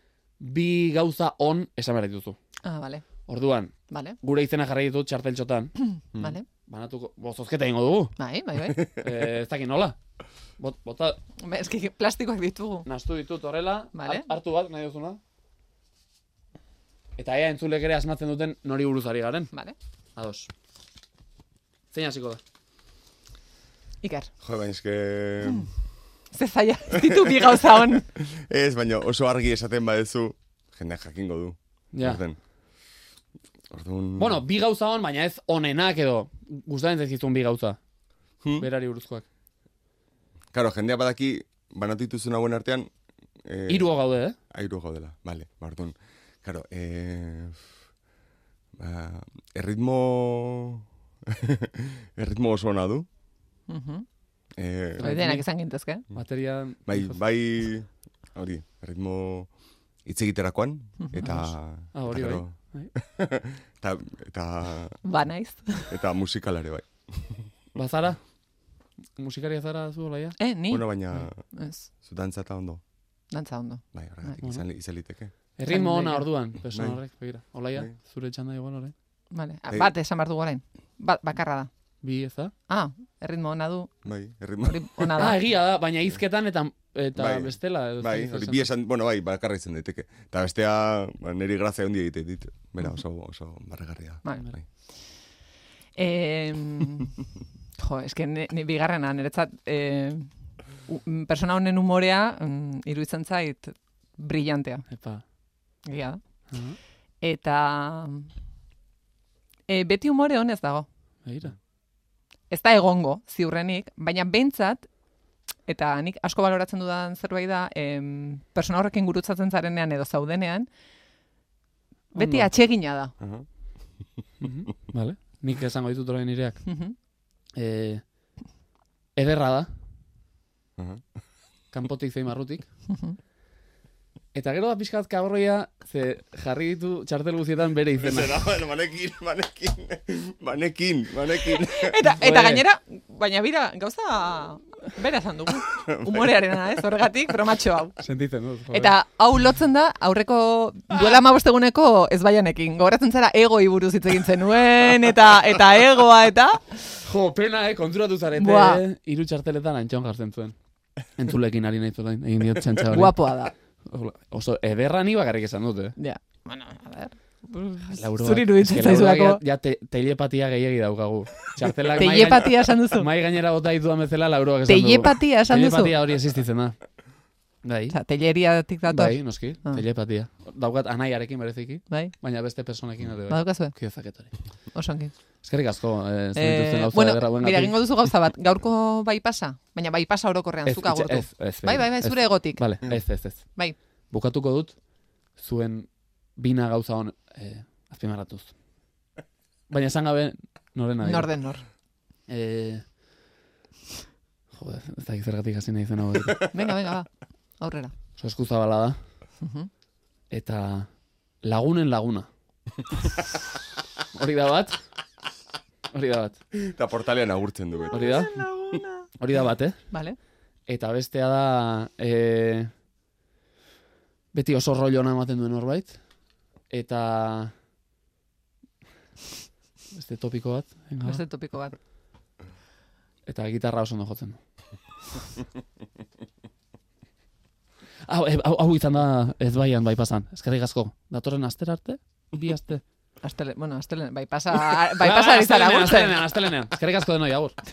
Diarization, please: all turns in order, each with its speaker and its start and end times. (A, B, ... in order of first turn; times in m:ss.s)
0:00.4-0:02.4 A
0:02.6-0:03.0 B
0:03.3-0:05.7 A
0:03.9-0:04.2 B
0:05.8-0:06.4 B
0:06.7-0:08.1 A
0:08.2-0:08.9 B
0:08.9-0:10.0 A
0:10.6-0:11.2 A
0:11.4-0:12.9 B
0:12.8-0:15.2 A
0:13.9-0:14.3 B
0:17.2-0:19.5 A
0:20.2-0:20.5 A
0:21.9-0:22.4 A
0:24.0-0:24.3 B
0:24.4-0:25.7 C
0:26.3-0:28.1 B
0:27.0-0:32.4 C
0:31.9-0:32.2 A
0:33.7-0:34.4 C
0:34.2-0:37.8 A
0:38.6-0:39.2 A
0:40.5-0:42.9 C
0:43.4-0:43.9 C
0:43.7-0:44.4 A
0:44.5-0:47.6 C
0:48.8-0:53.1 C
0:53.7-0:54.0 B
0:54.6-0:55.1 C
0:55.0-0:55.4 A
0:55.0-0:56.0 B
0:56.1-0:57.2 A
0:56.9-0:59.5 C
1:00.0-1:05.0 C
1:01.0-1:01.4 B
1:01.2-1:02.9 A
1:05.0-1:06.0 B
1:05.9-1:07.5 C
1:07.7-1:08.2 A
1:09.2-1:10.4 A
1:10.4-1:11.9 B
1:10.7-1:11.4 C
1:12.0-1:12.8 C
1:13.3-1:14.4 B
1:13.9-1:15.3 C
1:15.6-1:18.9 A
1:15.7-1:16.3 B
1:16.7-1:17.0 C
1:19.3-1:21.7 B
1:22.0-1:22.5 A
1:22.7-1:24.0 B
1:24.0-1:25.1 C
1:24.6-1:25.4 B
1:25.2-1:28.7 A
1:27.2-1:34.6 C
1:34.2-1:34.5 B
1:36.0-1:37.1 B
1:37.8-1:40.3 B
1:40.8-1:44.8 B
1:44.9-1:45.2 A
1:45.9-1:46.2 B
1:46.5-1:46.8 A
1:47.2-1:48.3 B
1:49.7-1:50.8 B
1:51.2-1:51.6 A
1:52.5-1:54.8 B
1:55.7-2:00.7 B
2:02.1-2:02.5 A
2:02.2-2:03.1 B
2:03.2-2:03.4 C
2:04.4-2:06.6 A
2:06.6-2:06.9 B
2:07.6-2:08.0 A
2:09.2-2:09.7 A
2:11.7-2:12.7 A
2:12.9-2:13.2 B
2:14.3-2:18.4 A
2:18.0-2:22.0 C
2:21.4-2:28.0 B
2:22.1-2:22.6 A
2:28.0-2:28.9 A
2:28.7-2:36.9 B
2:37.0-2:40.5 A
2:38.4-2:38.8 B
2:41.1-2:43.2 A
2:42.8-2:43.5 B
2:43.8-2:45.9 A
2:46.0-2:49.4 B
2:47.9-2:56.8 A
2:51.9-2:53.1 B
2:54.7-2:55.9 B
2:57.6-2:57.9 A
2:57.9-2:59.8 B
2:58.9-3:04.3 A
3:03.3-3:03.8 B
3:04.7-3:05.1 B
3:05.4-3:07.7 A
3:06.4-3:12.7 B
3:10.6-3:13.4 A
3:14.1-3:14.7 A
3:15.4-3:18.5 A
3:19.7-3:21.3 A
3:21.0-3:21.6 B
3:22.3-3:22.8 A
3:24.5-3:26.5 A
3:26.5-3:27.1 B
3:27.6-3:27.9 B
3:28.2-3:29.0 A
3:29.4-3:29.7 B
3:30.3-3:30.9 A
3:31.4-3:32.3 A
3:34.1-3:34.8 A
3:35.9-3:36.4 A
3:36.5-3:38.4 C
3:37.9-3:39.1 B
3:37.9-3:38.3 A
3:39.2-3:39.8 A
3:39.9-3:40.2 B
3:40.7-3:42.7 A
3:44.3-3:46.0 A
3:46.7-3:47.5 A
3:49.9-3:51.2 A
3:51.0-3:51.8 B
3:53.3-3:54.4 A
3:58.1-4:02.8 A
4:03.2-4:06.2 B
4:05.0-4:07.6 A